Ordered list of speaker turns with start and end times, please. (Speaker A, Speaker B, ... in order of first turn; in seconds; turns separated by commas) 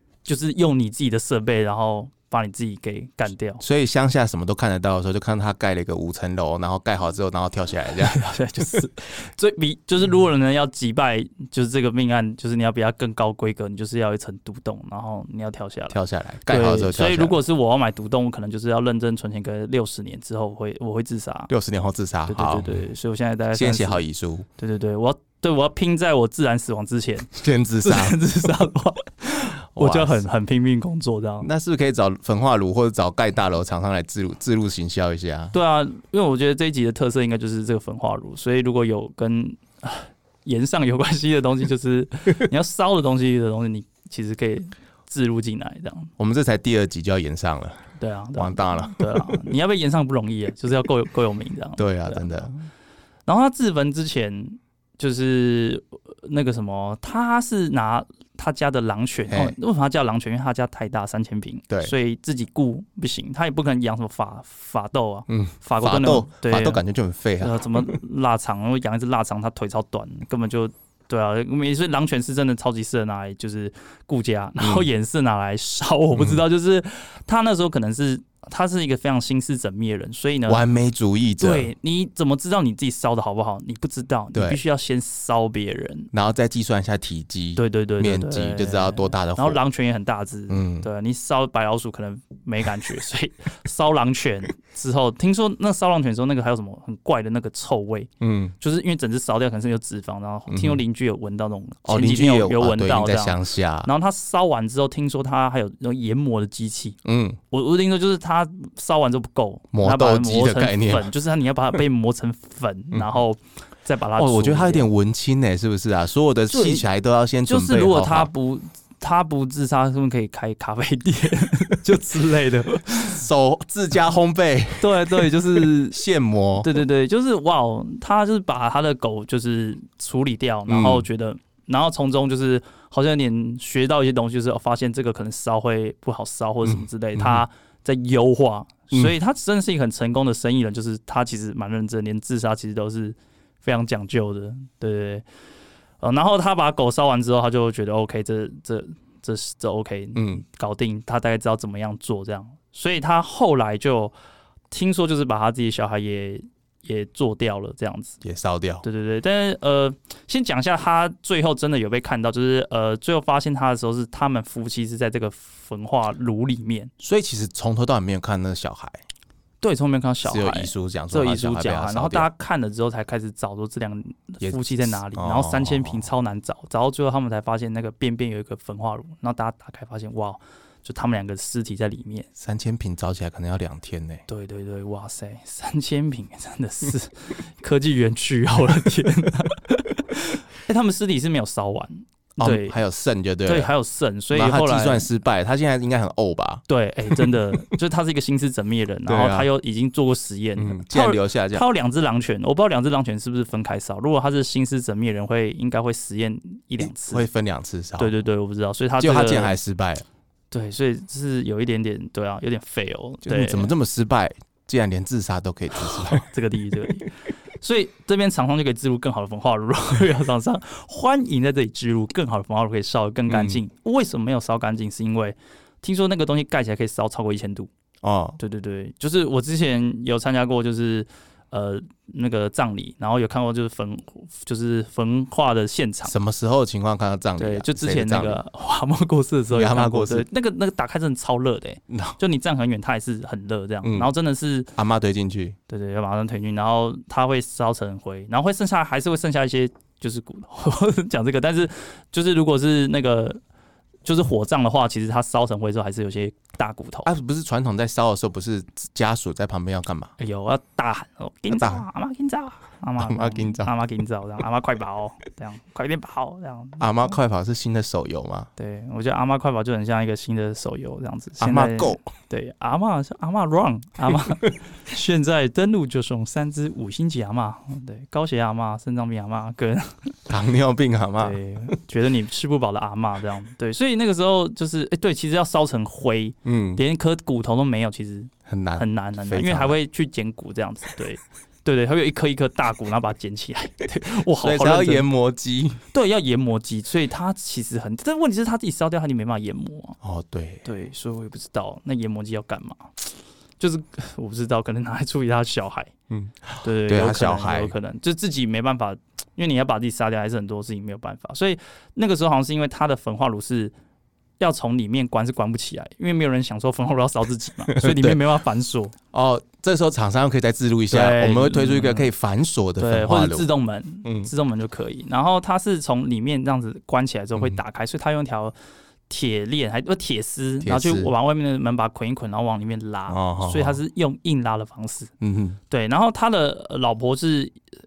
Speaker A: 0.2-3.6, Speaker B: 3.6-8.7, Speaker A: 7.9-21.5, Speaker B: 15.9-17.4, Speaker B: 21.5-22.9, Speaker A: 22.3-24.0, Speaker B: 23.5-24.5, Speaker A: 24.6-27.3, Speaker B: 27.3-28.2, Speaker A: 27.8-31.5, Speaker B: 29.7-30.2, Speaker B: 31.4-35.5, Speaker A: 35.5-46.1, Speaker B: 46.2-49.4, Speaker A: 48.0-52.5, Speaker B: 51.8-52.7, Speaker A: 53.2-66.8, Speaker B: 59.3-59.5, Speaker B: 61.7-61.9, Speaker B: 65.3-68.0, Speaker A: 67.4-80.6, Speaker B: 74.6-74.9, Speaker B: 76.1-76.4, Speaker B: 80.5-81.7, Speaker A: 81.4-86.1, Speaker B: 84.3-84.6, Speaker B: 86.1-89.6, Speaker A: 87.6-98.1, Speaker B: 90.5-90.9, Speaker B: 98.2-98.5, Speaker A: 98.6-107.0, Speaker B: 100.5-100.8, Speaker B: 101.8-103.9, Speaker B: 107.0-107.4, Speaker A: 107.5-114.9, Speaker B: 109.7-111.1, Speaker B: 114.2-118.3, Speaker A: 116.5-116.8, Speaker A: 117.5-123.2, Speaker B: 122.9-126.7, Speaker A: 124.8-126.0, Speaker A: 126.6-145.2, Speaker B: 130.7-131.1, Speaker B: 136.6-137.4, Speaker A: 146.0-154.1, Speaker B: 150.1-150.4, Speaker A: 154.7-158.2, Speaker B: 158.2-158.8, Speaker A: 158.8-166.9, Speaker B: 167.0-169.0, Speaker A: 169.6-182.3, Speaker B: 170.2-172.3, Speaker B: 174.4-176.1, Speaker B: 182.4-184.2, Speaker A: 184.3-192.8, Speaker B: 192.4-193.7, Speaker A: 193.4-195.1, Speaker B: 194.3-197.6, Speaker A: 196.7-207.2, Speaker B: 199.1-199.5, Speaker B: 200.6-201.6, Speaker B: 206.8-208.1, Speaker A: 208.0-209.5, Speaker B: 209.0-210.0, Speaker A: 210.5-213.7, Speaker B: 213.2-216.3, Speaker A: 215.8-227.7, Speaker B: 223.3-223.6, Speaker B: 228.0-228.4, Speaker A: 228.4-236.1, Speaker B: 236.0-238.4, Speaker A: 237.4-244.7, Speaker B: 239.5-240.2, Speaker B: 241.9-242.2, Speaker B: 243.8-244.1, Speaker B: 244.8-245.6, Speaker A: 245.7-253.4, Speaker A: 254.0-257.1, Speaker B: 257.0-260.1, Speaker A: 260.2-267.1, Speaker B: 261.5-261.8, Speaker B: 263.0-263.7, Speaker B: 266.8-268.5, Speaker A: 268.6-280.1, Speaker B: 271.4-272.1, Speaker B: 280.3-281.7, Speaker A: 281.2-295.1, Speaker B: 286.4-286.8, Speaker B: 288.5-289.8, Speaker B: 294.4-295.8, Speaker A: 295.9-300.0, Speaker B: 300.0-300.6, Speaker A: 300.6-305.9, Speaker B: 306.1-307.7, Speaker A: 306.6-313.7, Speaker A: 314.4-318.9, Speaker B: 317.7-318.2, Speaker B: 319.1-323.5, Speaker A: 320.9-322.1, Speaker A: 322.8-328.5, Speaker B: 324.0-324.3, Speaker A: 329.1-335.1, Speaker B: 330.6-331.1, Speaker B: 333.1-333.8, Speaker B: 335.2-335.6, Speaker A: 335.7-337.6